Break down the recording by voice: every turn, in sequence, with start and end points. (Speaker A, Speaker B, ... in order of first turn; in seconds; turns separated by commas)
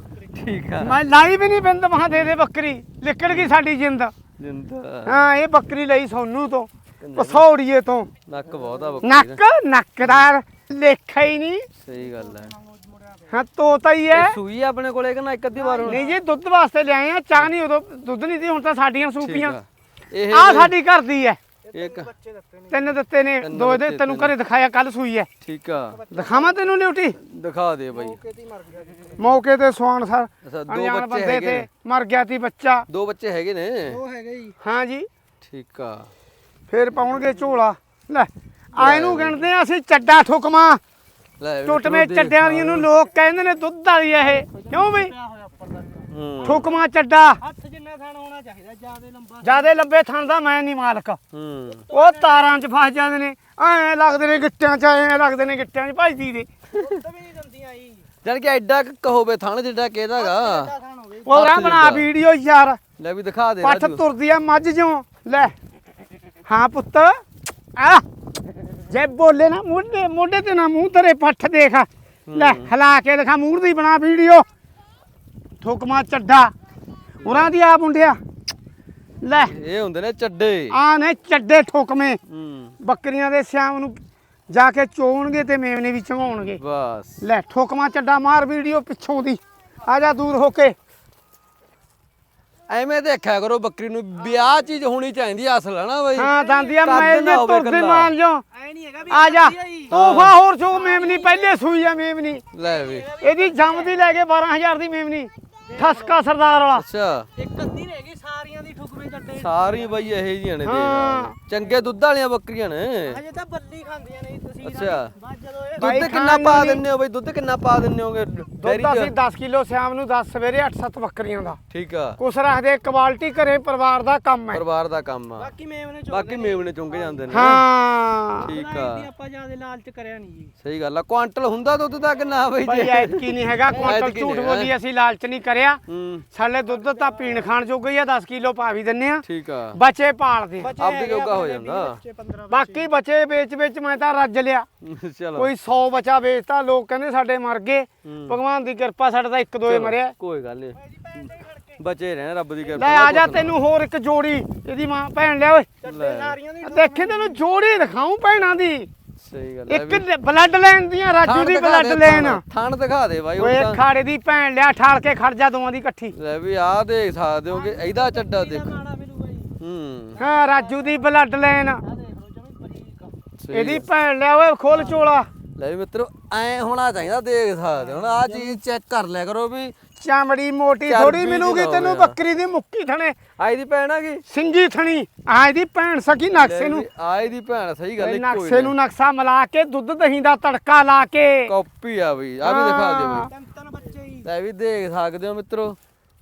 Speaker A: 0.3-1.0, Speaker B: 0.8-4.1, Speaker A: 4.4-5.3, Speaker B: 5.1-8.1, Speaker A: 7.0-7.5, Speaker A: 8.3-9.4, Speaker B: 9.0-11.7, Speaker A: 11.8-12.5, Speaker C: 11.9-13.4, Speaker B: 13.3-14.4, Speaker A: 14.1-16.0, Speaker C: 15.6-16.2, Speaker B: 15.8-19.6, Speaker A: 19.2-20.7, Speaker B: 20.3-21.4, Speaker C: 21.6-23.0, Speaker A: 21.7-22.1, Speaker B: 22.7-25.3, Speaker A: 23.4-24.3, Speaker A: 25.4-26.0, Speaker C: 25.9-26.7, Speaker B: 26.1-27.2, Speaker A: 27.2-28.2, Speaker C: 27.9-29.4, Speaker B: 29.2-32.9, Speaker A: 30.4-31.7, Speaker A: 32.9-34.0, Speaker C: 33.9-34.6, Speaker B: 34.6-35.1, Speaker A: 35.4-36.1, Speaker B: 36.7-40.8, Speaker A: 38.8-39.4, Speaker A: 41.4-42.9, Speaker B: 41.7-45.1, Speaker C: 44.5-46.6, Speaker A: 46.1-46.6, Speaker B: 46.5-47.4, Speaker C: 47.4-49.8, Speaker B: 49.4-51.2, Speaker A: 51.3-51.8, Speaker C: 51.9-52.6, Speaker B: 51.9-56.5, Speaker C: 56.8-58.1, Speaker A: 58.2-60.7, Speaker C: 60.2-61.5, Speaker B: 61.3-62.8, Speaker A: 61.3-62.1, Speaker A: 63.0-64.0, Speaker B: 63.6-65.5, Speaker B: 66.5-67.2, Speaker B: 67.8-68.0, Speaker B: 68.9-74.5, Speaker A: 72.3-72.7, Speaker B: 75.6-76.5, Speaker A: 77.2-77.5, Speaker B: 77.2-78.2, Speaker B: 79.2-79.5, Speaker A: 79.4-80.8, Speaker B: 80.7-82.2, Speaker A: 82.3-82.8, Speaker B: 82.8-84.0, Speaker B: 84.5-86.6, Speaker A: 86.6-87.2, Speaker B: 87.2-90.8, Speaker A: 92.7-96.3, Speaker B: 96.2-98.4, Speaker C: 96.2-96.9, Speaker A: 96.8-98.2, Speaker C: 98.5-100.0, Speaker B: 99.1-102.4, Speaker A: 99.9-100.4, Speaker C: 100.7-101.6, Speaker A: 102.5-103.1, Speaker C: 102.6-104.0, Speaker B: 103.2-106.8, Speaker C: 105.7-106.2, Speaker A: 106.8-107.3, Speaker C: 107.4-110.1, Speaker A: 109.3-113.2, Speaker B: 110.7-111.3, Speaker C: 113.0-116.0, Speaker A: 114.6-115.1, Speaker A: 115.8-119.2, Speaker B: 115.8-116.8, Speaker B: 118.6-121.6, Speaker A: 121.7-122.2, Speaker B: 122.2-124.6, Speaker A: 124.5-125.5, Speaker C: 125.4-127.5, Speaker A: 126.1-127.7, Speaker B: 127.3-128.5, Speaker A: 128.4-129.1, Speaker C: 128.4-130.5, Speaker A: 130.6-134.7, Speaker B: 132.7-135.8, Speaker A: 135.9-136.3, Speaker B: 136.3-140.7, Speaker C: 136.7-137.5, Speaker A: 139.2-139.8, Speaker C: 140.6-142.9, Speaker A: 140.8-142.0, Speaker B: 142.5-144.7, Speaker A: 144.8-145.5, Speaker B: 145.4-150.2, Speaker A: 148.0-148.4, Speaker A: 149.7-153.6, Speaker C: 150.8-151.8, Speaker B: 152.8-155.7, Speaker C: 155.8-157.4, Speaker A: 155.8-156.4, Speaker B: 156.6-158.9, Speaker A: 159.2-160.1, Speaker B: 159.7-162.4, Speaker A: 161.2-163.8, Speaker B: 163.4-166.2, Speaker A: 166.1-168.8, Speaker C: 167.5-169.6, Speaker A: 169.6-170.2, Speaker C: 170.2-171.1, Speaker B: 170.2-171.8, Speaker C: 171.8-173.1, Speaker A: 173.4-173.9, Speaker B: 173.5-175.3, Speaker A: 175.6-179.8, Speaker C: 177.9-178.6, Speaker B: 180.0-183.2, Speaker A: 180.8-182.2, Speaker A: 183.4-184.2, Speaker B: 184.3-186.8, Speaker A: 186.3-188.8, Speaker B: 188.0-191.5, Speaker A: 191.5-193.3, Speaker B: 192.4-193.3, Speaker C: 193.3-194.3, Speaker A: 194.2-195.8